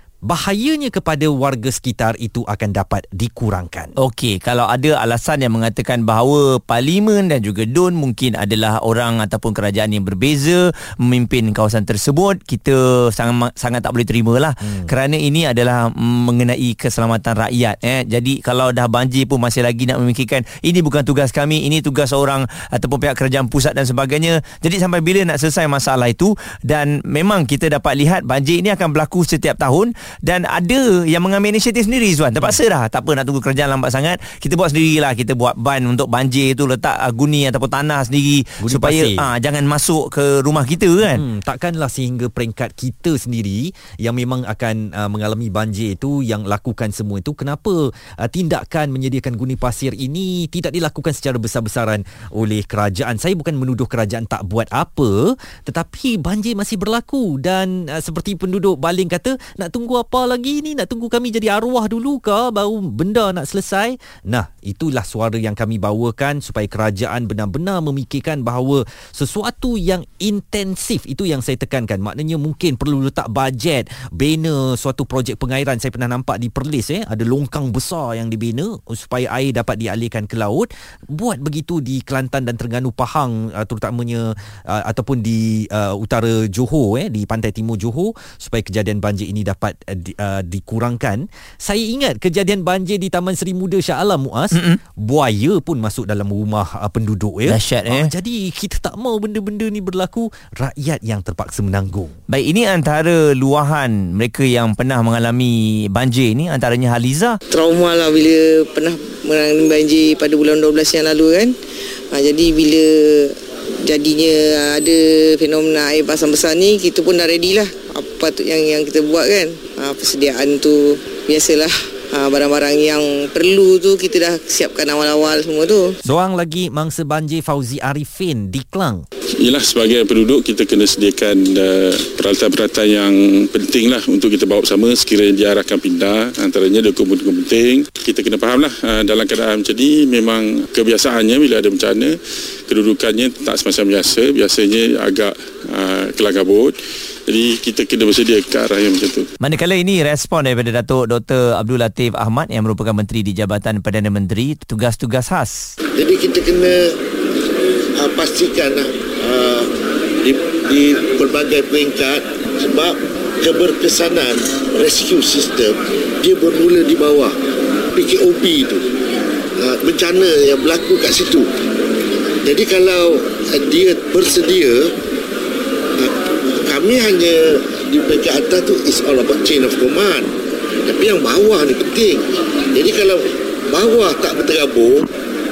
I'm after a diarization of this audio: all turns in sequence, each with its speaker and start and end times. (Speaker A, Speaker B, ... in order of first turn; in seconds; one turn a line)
Speaker A: 0.3-3.9
Speaker B: 4.0-41.2
Speaker A: 38.6-39.3
Speaker A: 41.1-102.1
Speaker B: 97.5-98.1
Speaker B: 102.3-107.4
Speaker C: 107.5-111.5
Speaker C: 112.1-126.0
Speaker A: 126.0-129.1
Speaker D: 129.4-146.8
Speaker D: 147.3-149.3
Speaker B: 149.4-155.7
Speaker E: 156.0-156.9
Speaker E: 157.9-159.7
Speaker E: 160.2-167.3
Speaker E: 167.9-168.9
Speaker E: 169.6-171.5
Speaker E: 172.4-174.9
Speaker E: 176.0-180.3
Speaker E: 180.9-185.1